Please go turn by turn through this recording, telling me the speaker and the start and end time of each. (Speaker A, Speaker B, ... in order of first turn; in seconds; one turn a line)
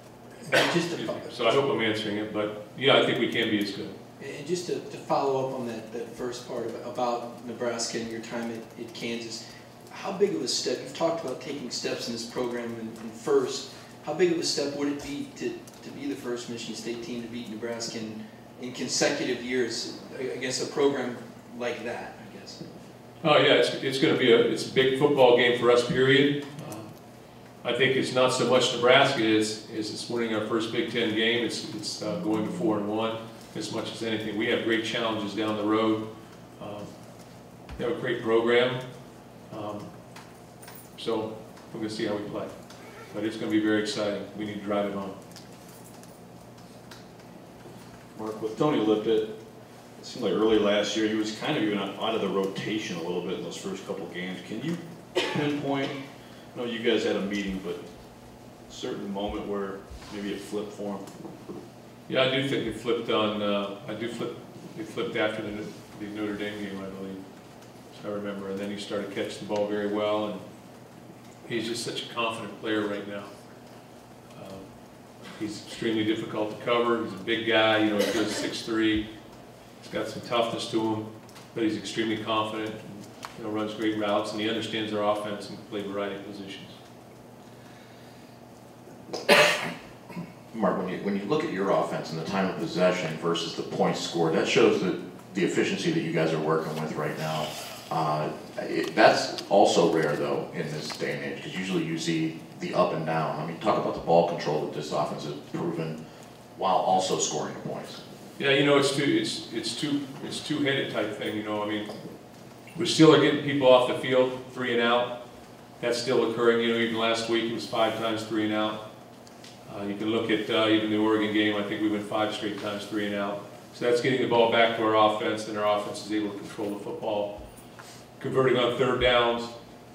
Speaker A: 0.4-1.6
Speaker B: 0.5-3.9
Speaker A: 4.2-22.6
Speaker B: 23.2-26.9
Speaker B: 27.6-36.0
Speaker B: 36.6-36.9
Speaker B: 37.8-38.8
Speaker B: 39.5-39.9
Speaker B: 41.0-42.5
Speaker B: 43.1-45.2
Speaker C: 48.1-49.3
Speaker C: 50.0-56.0
Speaker C: 56.5-57.8
Speaker C: 58.7-61.1
Speaker B: 62.1-67.2
Speaker B: 67.9-70.4
Speaker B: 71.4-73.3
Speaker B: 74.3-74.6
Speaker B: 75.3-79.0
Speaker B: 79.8-86.8
Speaker D: 90.5-106.0
Speaker D: 106.5-108.0
Speaker B: 108.4-111.9
Speaker B: 112.7-115.1
Speaker B: 115.8-118.8
Speaker B: 119.7-127.4
Speaker B: 128.2-129.5